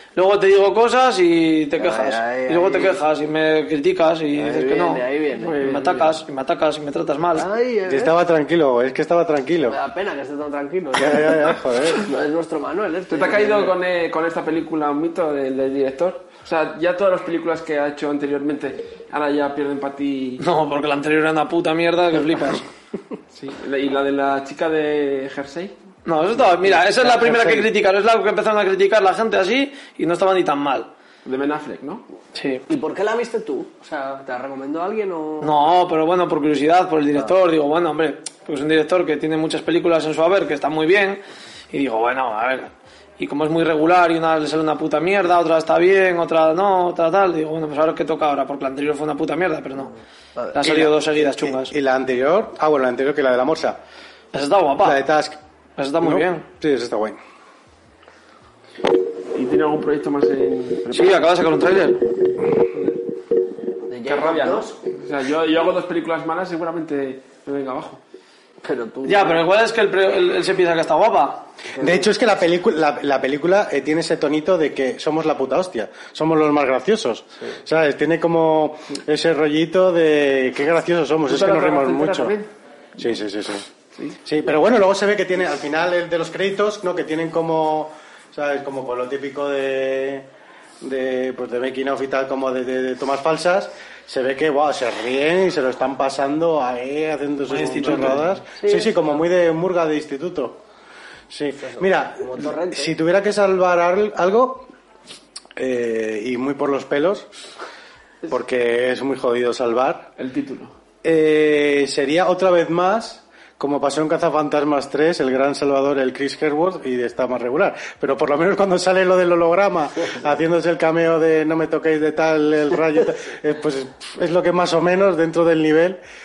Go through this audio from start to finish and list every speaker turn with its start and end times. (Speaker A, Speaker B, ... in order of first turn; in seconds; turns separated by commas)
Speaker A: 0.2-5.0, Speaker B: 1.8-3.0, Speaker B: 4.3-5.7, Speaker C: 5.4-6.2, Speaker A: 5.6-7.5, Speaker B: 7.4-8.1, Speaker D: 7.9-9.8, Speaker B: 9.7-13.8, Speaker D: 11.0-12.0, Speaker C: 13.1-20.4, Speaker A: 20.4-22.7, Speaker C: 23.3-25.7, Speaker A: 26.1-30.9, Speaker D: 27.0-27.7, Speaker C: 31.2-32.0, Speaker A: 32.3-32.6, Speaker B: 32.7-35.6, Speaker A: 35.4-49.9, Speaker B: 50.4-50.6, Speaker A: 50.5-51.7, Speaker D: 50.6-53.8, Speaker A: 54.3-55.0, Speaker D: 54.8-55.4, Speaker A: 55.8-56.5, Speaker D: 56.0-57.2, Speaker C: 59.3-61.3, Speaker A: 60.9-62.0, Speaker B: 63.9-64.8, Speaker C: 64.1-68.0, Speaker B: 68.6-69.5, Speaker A: 69.0-71.5, Speaker B: 71.7-72.1, Speaker D: 71.8-82.4, Speaker C: 81.3-82.5, Speaker D: 83.0-83.7, Speaker D: 84.2-90.3, Speaker D: 90.8-100.6, Speaker A: 97.5-98.3, Speaker B: 98.6-99.0, Speaker D: 101.3-104.7, Speaker B: 101.6-103.0, Speaker D: 105.6-107.3, Speaker D: 108.3-110.1, Speaker C: 110.2-110.7, Speaker D: 111.0-126.0